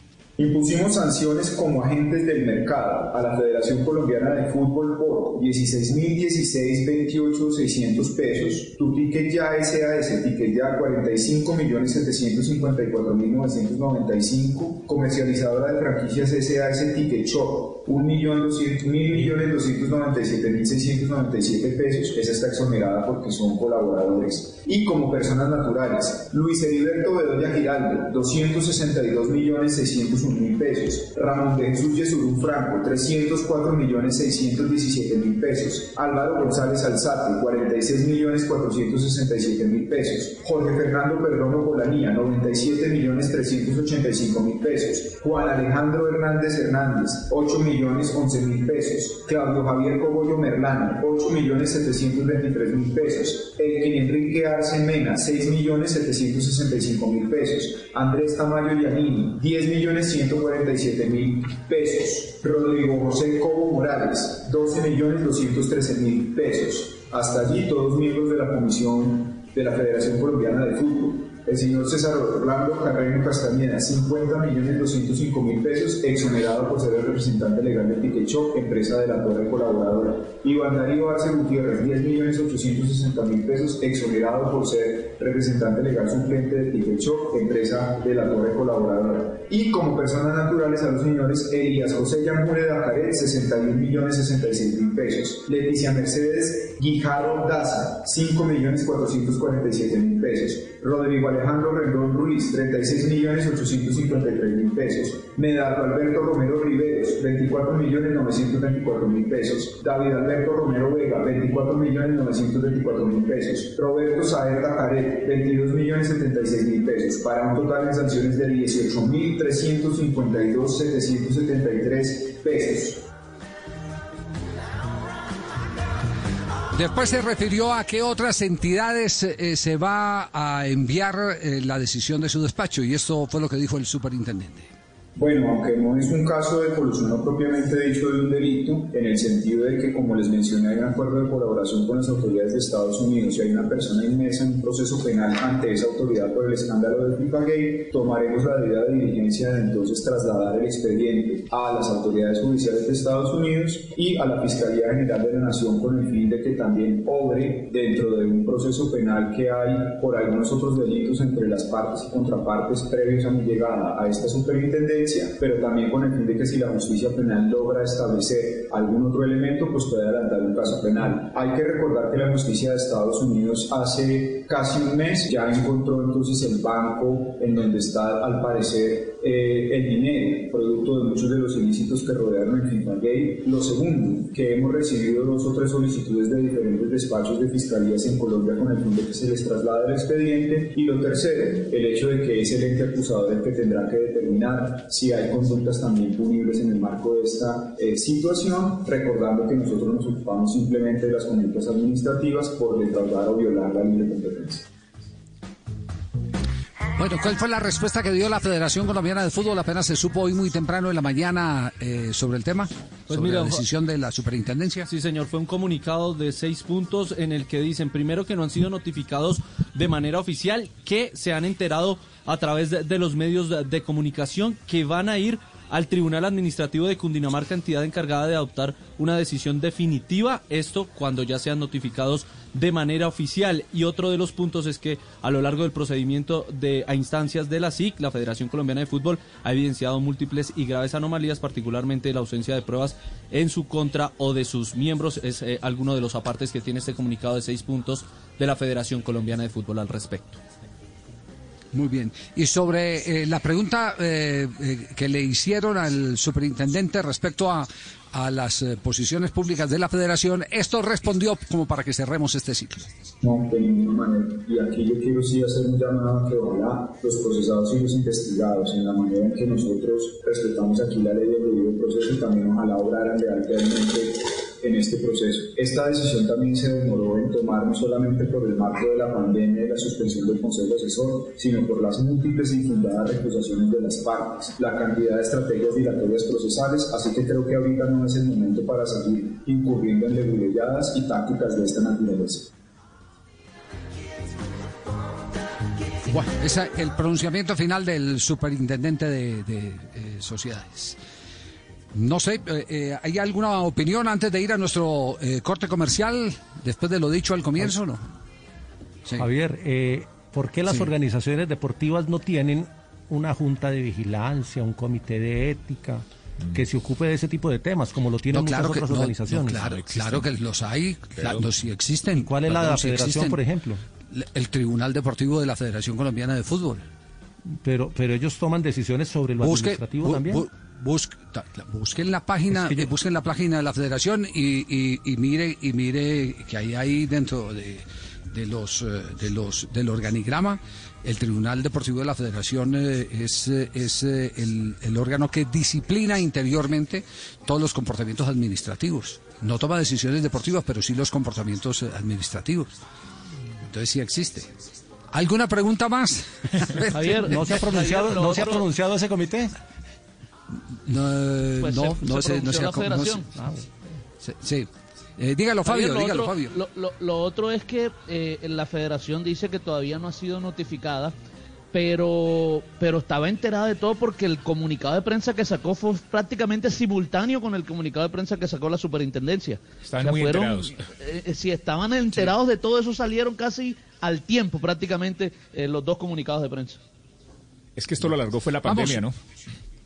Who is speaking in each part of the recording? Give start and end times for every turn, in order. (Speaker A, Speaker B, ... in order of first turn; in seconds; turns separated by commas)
Speaker A: 0.4-123.0, Speaker B: 126.7-134.7, Speaker A: 135.2-204.7, Speaker B: 207.0-214.9, Speaker C: 213.1-213.6, Speaker C: 214.9-250.4, Speaker B: 251.7-262.9, Speaker A: 263.2-292.5, Speaker B: 296.1-301.0, Speaker B: 301.9-308.0, Speaker D: 309.2-320.2, Speaker B: 318.3-323.4, Speaker D: 322.2-323.8, Speaker B: 324.1-326.9, Speaker D: 327.6-330.4, Speaker B: 329.4-352.7, Speaker B: 353.7-354.5, Speaker B: 355.1-357.6, Speaker D: 356.9-359.5, Speaker B: 360.9-363.3, Speaker E: 362.2-363.2, Speaker B: 364.2-366.5, Speaker E: 365.7-371.1, Speaker E: 371.7-386.8, Speaker F: 379.9-380.8, Speaker F: 387.8-389.1, Speaker B: 388.6-389.0